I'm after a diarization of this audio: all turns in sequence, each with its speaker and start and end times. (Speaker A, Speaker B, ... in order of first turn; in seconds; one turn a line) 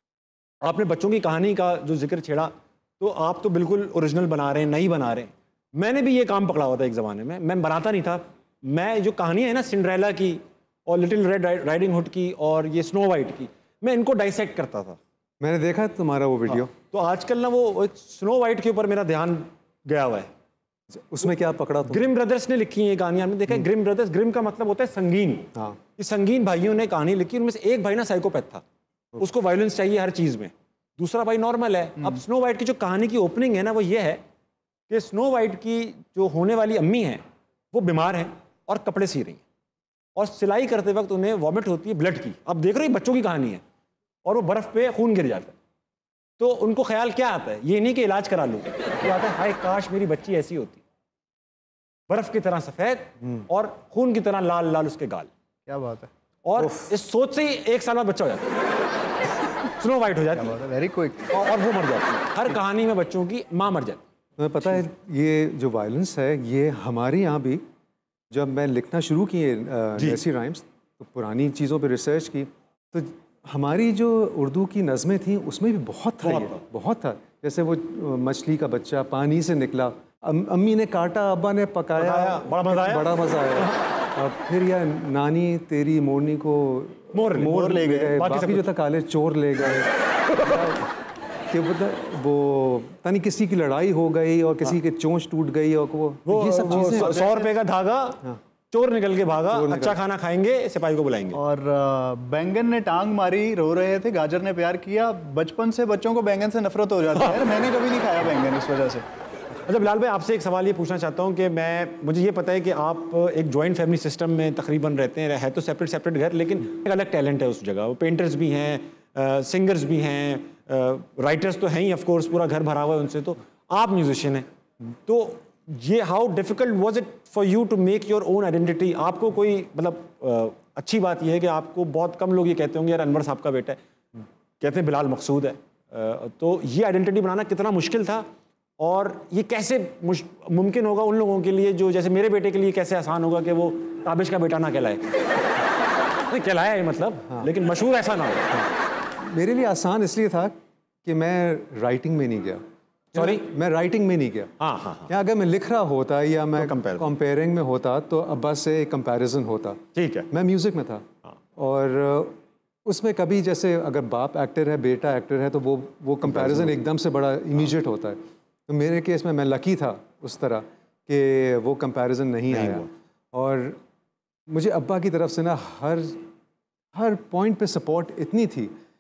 Speaker A: 0.6-15.0
Speaker B: 15.4-16.7
Speaker A: 16.5-20.3
Speaker B: 20.9-22.1
Speaker A: 21.9-28.6
Speaker A: 29.2-34.2
Speaker A: 34.9-39.4
Speaker A: 40.2-43.6
Speaker A: 44.2-45.5
Speaker A: 46.4-50.8
Speaker A: 52.1-55.3
Speaker C: 55.7-56.1
Speaker A: 56.4-58.5
Speaker B: 56.6-56.9
Speaker A: 59.6-60.6
Speaker C: 60.4-61.3
Speaker A: 61.3-64.0
Speaker B: 64.4-67.6
Speaker B: 68.3-90.9
Speaker A: 76.2-76.6
Speaker A: 81.9-83.7
Speaker A: 87.1-88.7
Speaker B: 91.5-97.3
Speaker A: 96.3-101.4
Speaker B: 99.5-100.0
Speaker C: 101.3-109.0
Speaker A: 109.7-133.8
Speaker A: 134.6-138.3
Speaker A: 138.8-145.1
Speaker A: 146.3-148.7
Speaker B: 149.2-152.6
Speaker B: 153.1-154.5
Speaker A: 153.1-153.5
Speaker A: 154.6-155.1
Speaker B: 155.1-161.1
Speaker A: 156.6-157.1
Speaker A: 159.9-160.3
Speaker B: 161.6-173.8
Speaker A: 172.5-172.9
Speaker B: 174.5-176.2
Speaker B: 176.9-178.7